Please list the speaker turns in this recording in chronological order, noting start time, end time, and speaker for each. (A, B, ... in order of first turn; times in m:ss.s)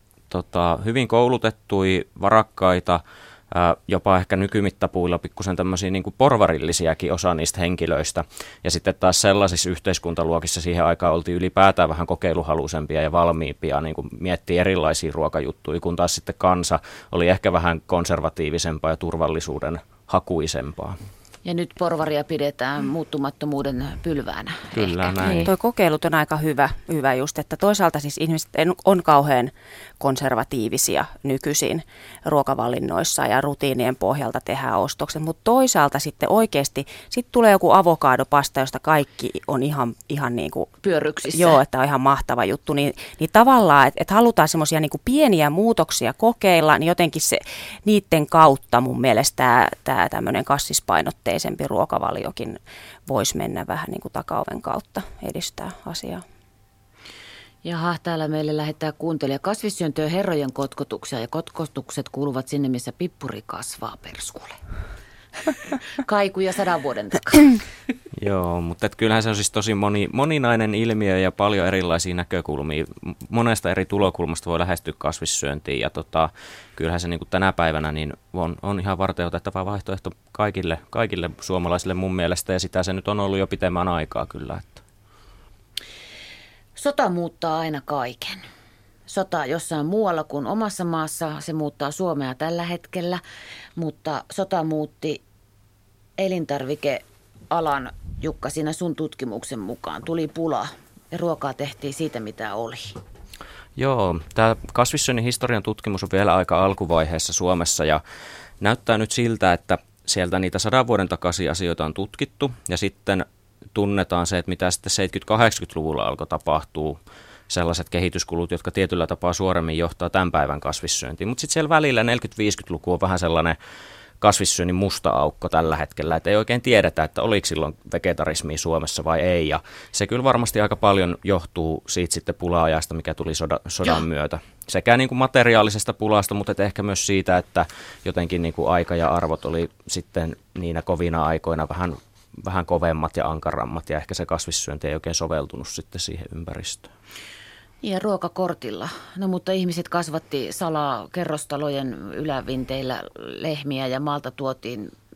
0:00.3-0:21.0 A
0:21.4-0:25.5 B
0:24.7-0:25.5 A
0:25.4-0:40.7 C
0:40.8-0:41.6 B
0:41.3-0:56.2 C
0:57.6-1:04.6 B
1:05.9-1:07.6 B
1:08.1-1:24.8 A
1:26.8-1:28.4 B
1:29.1-1:33.2 B
1:33.8-1:35.2 B
1:36.2-1:43.0 B
1:43.8-1:48.0 A
1:48.6-2:03.6 A
2:04.2-2:26.9 A
2:27.8-2:34.9 B